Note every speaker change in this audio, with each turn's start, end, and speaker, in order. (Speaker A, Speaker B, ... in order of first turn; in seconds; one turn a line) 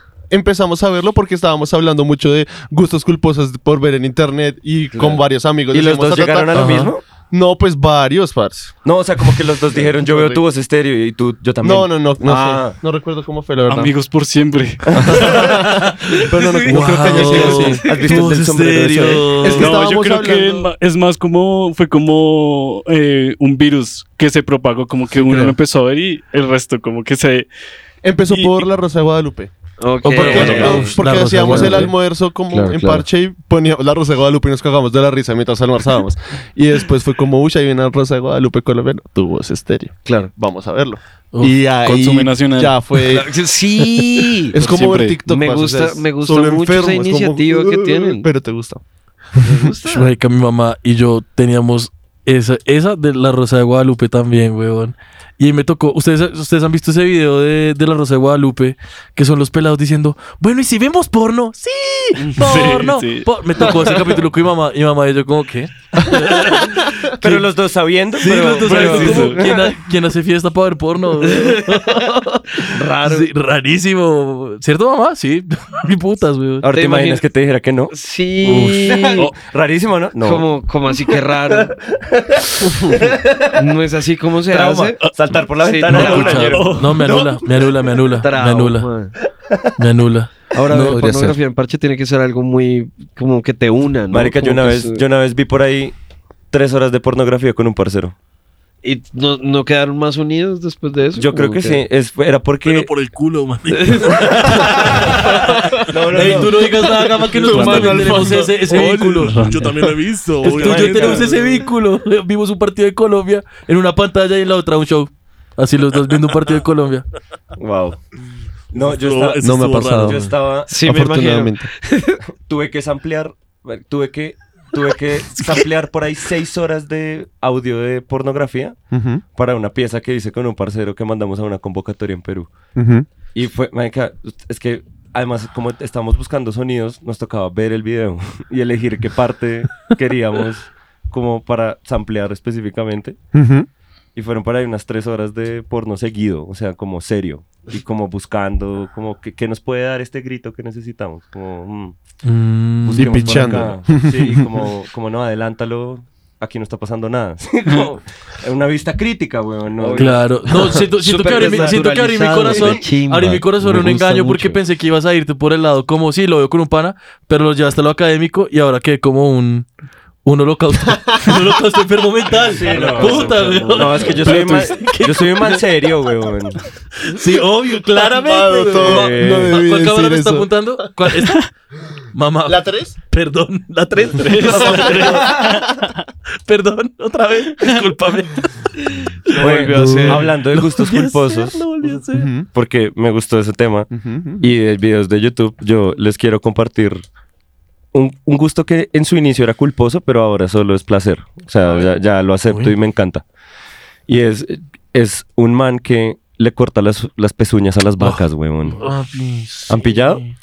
Speaker A: 0.3-8.7
Speaker B: 4.9-5.2
Speaker C: 5.7-7.0
Speaker D: 6.5-6.9
Speaker C: 8.8-12.8
Speaker A: 9.7-10.4
Speaker A: 11.6-13.9
Speaker E: 13.7-15.6
Speaker C: 14.9-15.4
Speaker A: 15.0-17.9
Speaker D: 15.6-19.7
Speaker C: 16.4-19.5
Speaker B: 17.6-18.2
Speaker A: 19.4-20.7
Speaker E: 19.5-27.5
Speaker B: 25.2-25.5
Speaker A: 28.0-29.5
Speaker E: 28.3-28.6
Speaker B: 29.8-31.9
Speaker D: 30.0-31.9
Speaker A: 30.1-43.3
Speaker B: 32.5-33.0
Speaker B: 40.0-40.3
Speaker E: 41.8-42.8
Speaker B: 43.1-44.5
Speaker A: 44.5-48.8
Speaker E: 44.6-45.2
Speaker B: 45.2-48.3
Speaker B: 49.4-50.1
Speaker A: 49.4-49.7
Speaker D: 49.9-67.4
Speaker E: 62.3-64.1
Speaker A: 66.0-66.3
Speaker C: 67.2-69.7
Speaker D: 68.2-76.7
Speaker B: 68.3-69.4
Speaker E: 68.8-69.4
Speaker B: 71.2-72.0
Speaker B: 72.7-73.3
Speaker C: 76.6-77.9
Speaker B: 76.7-77.2
Speaker B: 77.9-79.3
Speaker D: 78.5-79.0
Speaker C: 78.5-83.6
Speaker B: 80.2-81.8
Speaker B: 82.6-83.0
Speaker B: 83.5-85.0
Speaker C: 84.5-87.7
Speaker B: 85.6-86.6
Speaker D: 85.9-88.9
Speaker B: 88.2-89.1
Speaker D: 89.8-91.0
Speaker B: 90.5-95.0
Speaker A: 90.8-91.4
Speaker C: 94.1-95.9
Speaker C: 96.5-98.1
Speaker B: 98.8-101.8
Speaker C: 101.2-102.9
Speaker F: 102.6-105.1
Speaker B: 103.7-104.4
Speaker C: 104.5-105.2
Speaker D: 104.9-105.2
Speaker C: 105.9-106.6
Speaker D: 106.1-109.4
Speaker A: 107.4-108.6
Speaker E: 107.4-108.5
Speaker F: 108.6-111.4
Speaker E: 109.2-109.8
Speaker C: 110.4-111.4
Speaker D: 110.4-117.0
Speaker C: 117.6-118.0
Speaker C: 118.7-120.7
Speaker F: 118.7-120.2
Speaker A: 119.4-121.7
Speaker B: 120.7-122.2
Speaker C: 122.5-128.8
Speaker A: 128.9-129.2
Speaker C: 129.3-132.5
Speaker A: 132.8-133.1
Speaker C: 133.3-143.2
Speaker A: 143.3-143.7
Speaker C: 144.1-151.9
Speaker D: 152.2-153.7
Speaker A: 152.9-154.5
Speaker C: 152.9-160.3
Speaker B: 159.8-164.6
Speaker D: 160.0-169.7
Speaker C: 161.2-161.8
Speaker C: 162.4-162.8
Speaker D: 170.2-175.6
Speaker C: 172.4-176.6
Speaker F: 172.7-173.5
Speaker B: 172.7-174.2
Speaker E: 174.2-174.7
Speaker D: 177.0-181.5
Speaker A: 177.9-180.9
Speaker C: 178.8-179.6
Speaker D: 182.1-185.5
Speaker A: 182.5-182.9
Speaker E: 184.1-185.8
Speaker D: 186.5-188.7
Speaker B: 189.3-190.2
Speaker C: 189.4-191.7
Speaker D: 189.4-192.3
Speaker A: 189.8-190.2
Speaker A: 192.1-192.5
Speaker C: 192.5-197.0
Speaker A: 193.9-194.5
Speaker C: 197.9-203.2
Speaker C: 204.1-208.8
Speaker D: 208.8-210.3
Speaker C: 209.7-210.2